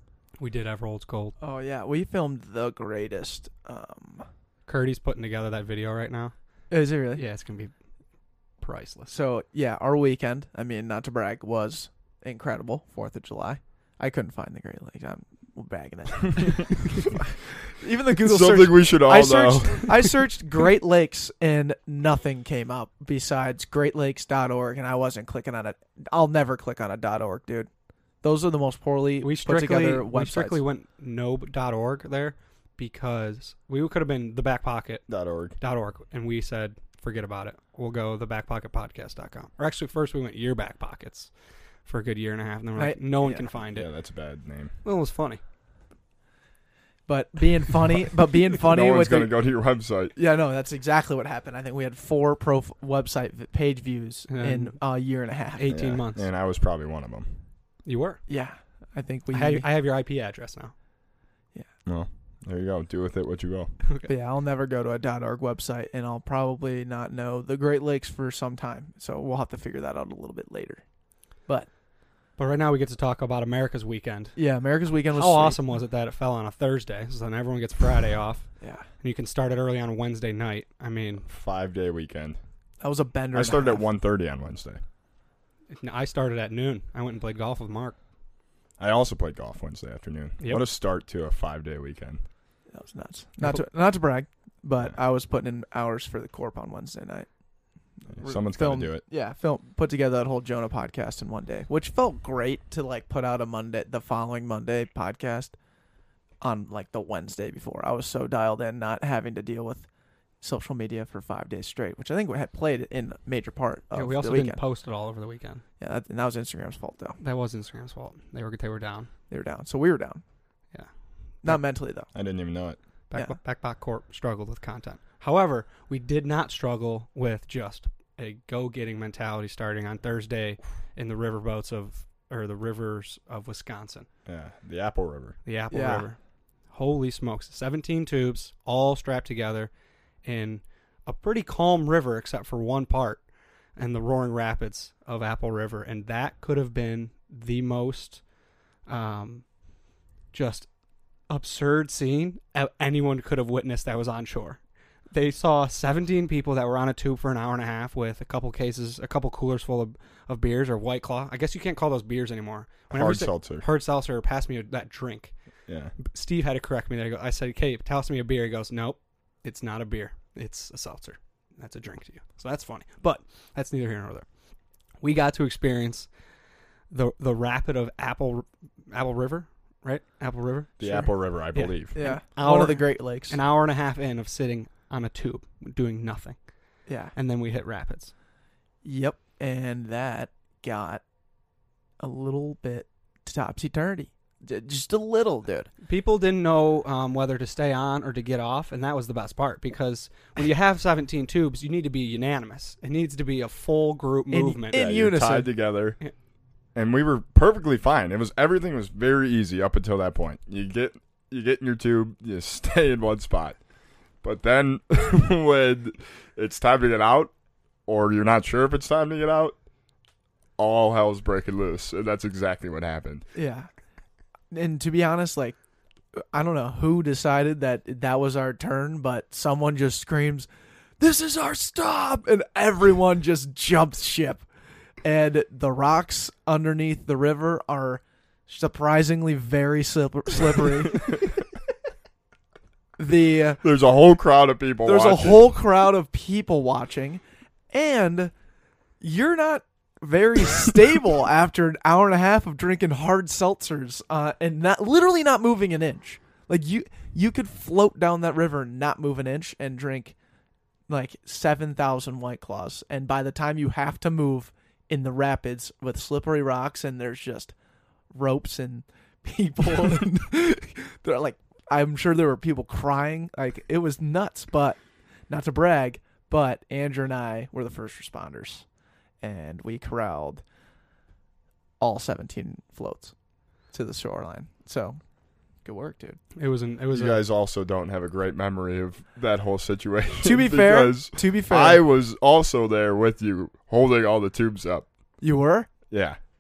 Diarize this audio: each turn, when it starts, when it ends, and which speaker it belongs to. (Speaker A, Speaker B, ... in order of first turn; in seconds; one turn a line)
Speaker A: 0.4-1.4
Speaker B: 1.4-4.2
Speaker A: 4.7-6.3
Speaker B: 6.7-7.2
Speaker A: 7.1-7.7
Speaker A: 8.6-9.1
Speaker B: 9.1-27.7
Speaker C: 18.2-20.2
Speaker B: 28.2-30.6
Speaker A: 29.2-35.1
Speaker C: 35.1-35.6
Speaker A: 35.6-41.3
Speaker A: 41.9-43.9
Speaker B: 42.8-43.5
Speaker C: 43.7-44.7
Speaker A: 44.8-45.4
Speaker B: 47.1-49.4
Speaker C: 48.6-50.1
Speaker B: 50.1-55.7
Speaker A: 54.3-54.8
Speaker A: 55.6-56.3
Speaker C: 55.7-57.4
Speaker A: 57.9-58.2
Speaker B: 58.3-59.7
Speaker A: 59.3-60.7
Speaker C: 61.9-63.8
Speaker B: 64.1-70.8
Speaker B: 71.4-71.7
Speaker A: 72.4-74.4
Speaker B: 74.4-75.6
Speaker A: 75.1-81.3
Speaker C: 81.3-82.4
Speaker B: 82.8-83.8
Speaker C: 83.3-84.8
Speaker A: 85.7-88.0
Speaker C: 88.8-92.2
Speaker A: 90.4-90.7
Speaker B: 92.7-97.3
Speaker B: 98.0-105.5
Speaker C: 98.1-99.0
Speaker B: 106.4-109.9
Speaker B: 110.4-114.6
Speaker A: 113.9-115.6
Speaker B: 115.8-117.2
Speaker A: 117.2-119.1
Speaker B: 119.3-120.2
Speaker B: 121.4-122.1
Speaker C: 122.1-122.8
Speaker A: 123.1-134.1
Speaker C: 134.3-135.4
Speaker A: 135.4-139.7
Speaker B: 135.7-136.1
Speaker A: 140.2-148.2
Speaker A: 148.8-149.6
Speaker A: 150.3-150.7
Speaker A: 151.3-165.4
Speaker C: 162.9-163.7
Speaker C: 165.7-166.0
Speaker A: 166.0-174.3
Speaker A: 175.0-176.1
Speaker A: 176.9-186.4
Speaker C: 180.8-182.0
Speaker B: 181.9-183.4
Speaker B: 186.9-187.1
Speaker A: 187.1-188.1
Speaker B: 188.8-191.0
Speaker B: 192.0-195.7
Speaker A: 195.8-204.8
Speaker B: 204.3-205.5
Speaker C: 204.7-206.0
Speaker C: 206.8-213.6
Speaker C: 214.2-217.3
Speaker C: 217.9-219.6
Speaker C: 220.6-223.2
Speaker B: 223.3-223.7
Speaker B: 224.5-225.6
Speaker B: 226.2-230.5
Speaker B: 231.0-234.5
Speaker B: 235.0-241.3
Speaker B: 243.0-243.6
Speaker C: 243.6-245.5
Speaker B: 244.8-248.3
Speaker B: 249.0-260.1
Speaker B: 260.9-267.5
Speaker B: 268.1-278.6
Speaker B: 279.2-280.4
Speaker B: 281.8-283.1
Speaker B: 283.7-285.0
Speaker B: 285.6-286.2
Speaker A: 286.4-287.2
Speaker C: 286.9-294.9
Speaker B: 290.2-291.8
Speaker B: 295.2-295.8
Speaker C: 295.9-296.2